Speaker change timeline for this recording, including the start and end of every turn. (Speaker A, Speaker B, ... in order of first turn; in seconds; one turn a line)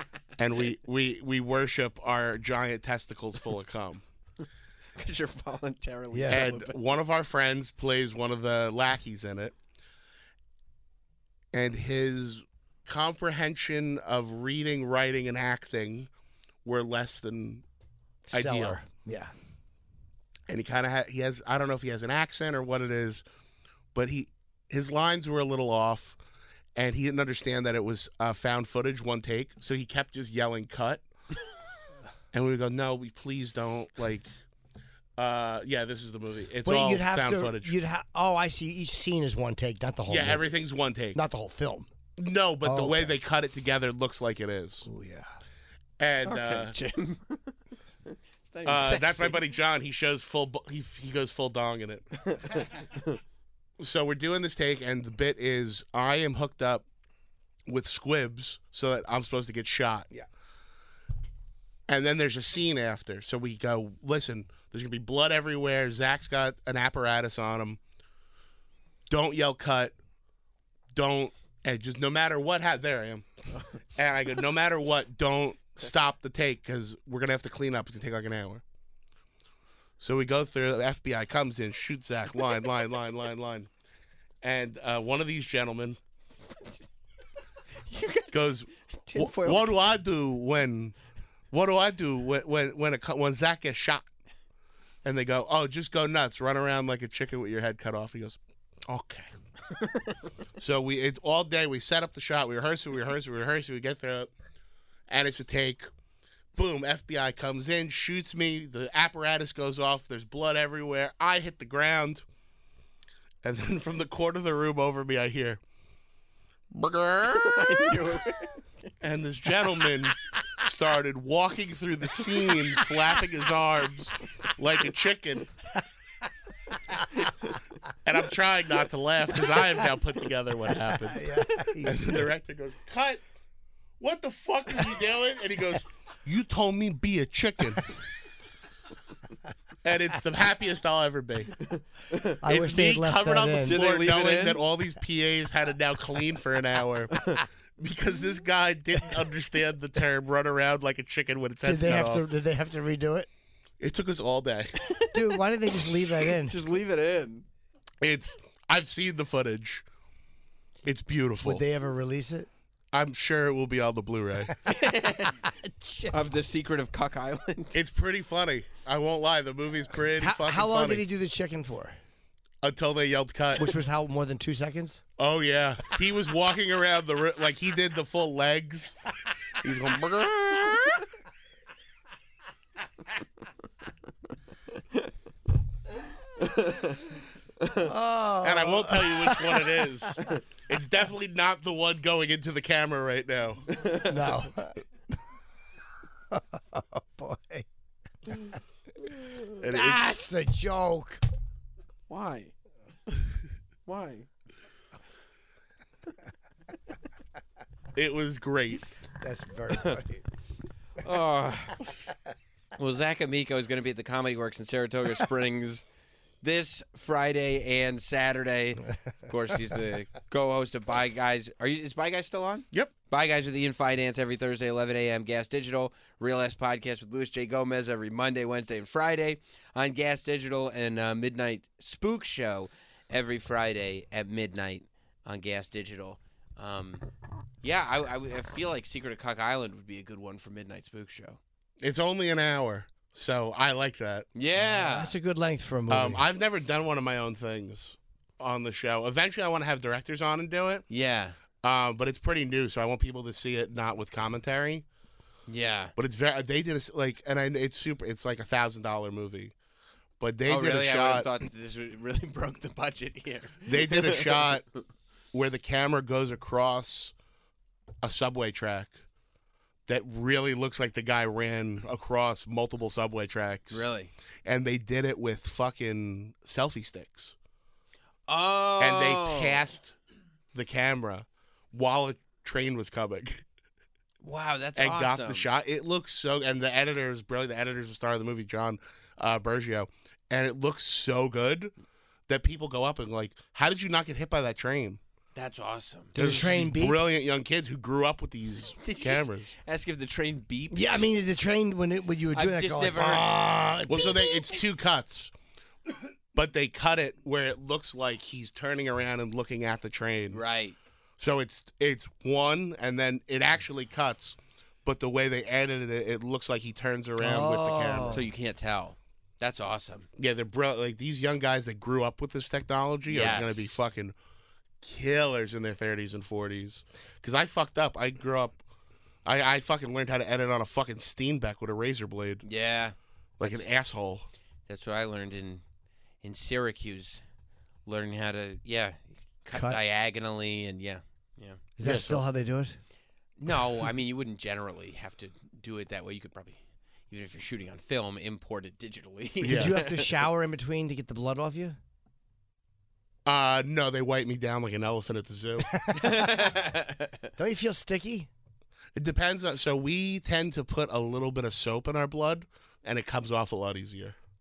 Speaker A: 0.4-4.0
Speaker B: 5.0-6.8
Speaker C: 6.1-6.5
Speaker A: 6.3-9.5
Speaker A: 11.5-16.1
Speaker A: 16.6-17.6
Speaker C: 18.3-19.3
Speaker A: 18.3-18.8
Speaker A: 20.5-23.2
Speaker A: 23.9-26.2
Speaker A: 26.8-31.0
Speaker A: 32.3-34.3
Speaker A: 35.2-37.7
Speaker C: 36.6-40.5
Speaker A: 40.1-41.2
Speaker C: 41.1-41.9
Speaker A: 42.2-44.9
Speaker C: 42.6-43.1
Speaker C: 44.8-45.3
Speaker A: 46.0-46.7
Speaker B: 46.2-49.5
Speaker A: 48.6-52.1
Speaker B: 52.2-53.2
Speaker A: 53.8-56.8
Speaker A: 57.7-60.1
Speaker A: 61.9-67.8
Speaker A: 69.1-69.9
Speaker A: 70.9-73.2
Speaker A: 74.0-78.6
Speaker A: 80.0-83.7
Speaker A: 84.4-86.0
Speaker B: 86.6-86.8
Speaker B: 87.8-88.4
Speaker A: 88.3-91.0
Speaker B: 89.0-89.8
Speaker A: 91.5-94.1
Speaker A: 95.0-99.3
Speaker B: 99.7-100.2
Speaker A: 100.6-104.3
Speaker A: 105.1-105.9
Speaker A: 106.5-112.2
Speaker A: 113.4-115.6
Speaker A: 116.7-118.0
Speaker B: 117.3-118.9
Speaker A: 119.0-125.5
Speaker B: 122.2-123.1
Speaker A: 128.0-133.2
Speaker C: 131.0-132.2
Speaker A: 134.0-137.9
Speaker A: 139.8-141.6
Speaker B: 141.7-142.3
Speaker C: 142.4-143.8
Speaker A: 142.4-152.2
Speaker B: 143.6-144.6
Speaker C: 151.6-153.3
Speaker A: 153.8-154.8
Speaker B: 154.9-155.2
Speaker C: 155.1-156.6
Speaker B: 156.2-157.4
Speaker A: 158.0-159.8
Speaker A: 160.8-161.6
Speaker C: 161.4-162.5
Speaker A: 162.9-164.6
Speaker B: 164.6-165.5
Speaker C: 165.4-166.2
Speaker B: 166.1-167.8
Speaker A: 167.7-171.0
Speaker C: 170.2-172.0
Speaker A: 172.6-173.7
Speaker C: 173.6-175.0
Speaker A: 175.2-179.0
Speaker A: 179.6-181.0
Speaker B: 184.7-185.1
Speaker B: 186.2-187.9
Speaker C: 187.8-190.1
Speaker A: 188.4-193.7
Speaker B: 193.7-194.4
Speaker C: 194.0-194.8
Speaker C: 196.3-197.7
Speaker A: 199.6-200.0
Speaker C: 199.6-201.2
Speaker B: 202.1-202.5
Speaker B: 203.8-204.3
Speaker A: 207.9-208.8
Speaker C: 209.2-210.2
Speaker B: 211.0-211.8
Speaker B: 212.8-215.8
Speaker B: 216.4-237.1
Speaker B: 237.6-241.4
Speaker A: 241.8-244.3
Speaker B: 244.3-245.1
Speaker C: 244.6-246.2
Speaker A: 245.9-250.8
Speaker B: 250.9-251.4
Speaker A: 251.6-254.8
Speaker B: 255.5-255.9
Speaker A: 256.0-259.5
Speaker A: 260.2-261.3
Speaker B: 260.4-264.6
Speaker A: 263.7-264.6
Speaker A: 265.3-267.1
Speaker A: 268.0-269.0
Speaker A: 269.9-273.9
Speaker B: 273.7-274.1
Speaker A: 274.4-277.3
Speaker B: 278.3-279.6
Speaker A: 278.8-279.9
Speaker A: 280.5-283.4
Speaker B: 284.2-285.5
Speaker A: 284.8-291.7
Speaker A: 292.3-295.0
Speaker B: 295.3-296.1
Speaker C: 296.1-297.1
Speaker A: 296.1-299.5
Speaker B: 298.7-301.1
Speaker C: 300.7-304.2
Speaker B: 302.3-303.3
Speaker A: 303.9-305.3
Speaker A: 306.3-310.4
Speaker B: 310.3-310.8
Speaker A: 311.2-318.2
Speaker C: 317.2-318.2
Speaker B: 318.1-320.1
Speaker A: 320.2-324.1
Speaker B: 323.1-323.7
Speaker A: 324.8-328.6
Speaker A: 329.2-332.4
Speaker B: 332.4-333.6
Speaker A: 333.4-334.3
Speaker B: 334.7-335.6
Speaker B: 336.2-337.2
Speaker B: 337.9-341.6
Speaker C: 339.5-339.8
Speaker C: 341.8-342.8
Speaker A: 341.8-342.2
Speaker B: 343.4-350.1
Speaker C: 349.4-351.8
Speaker A: 349.4-349.8
Speaker A: 353.2-355.7
Speaker C: 355.7-356.4
Speaker B: 356.0-357.3
Speaker C: 357.4-358.3
Speaker A: 358.9-364.1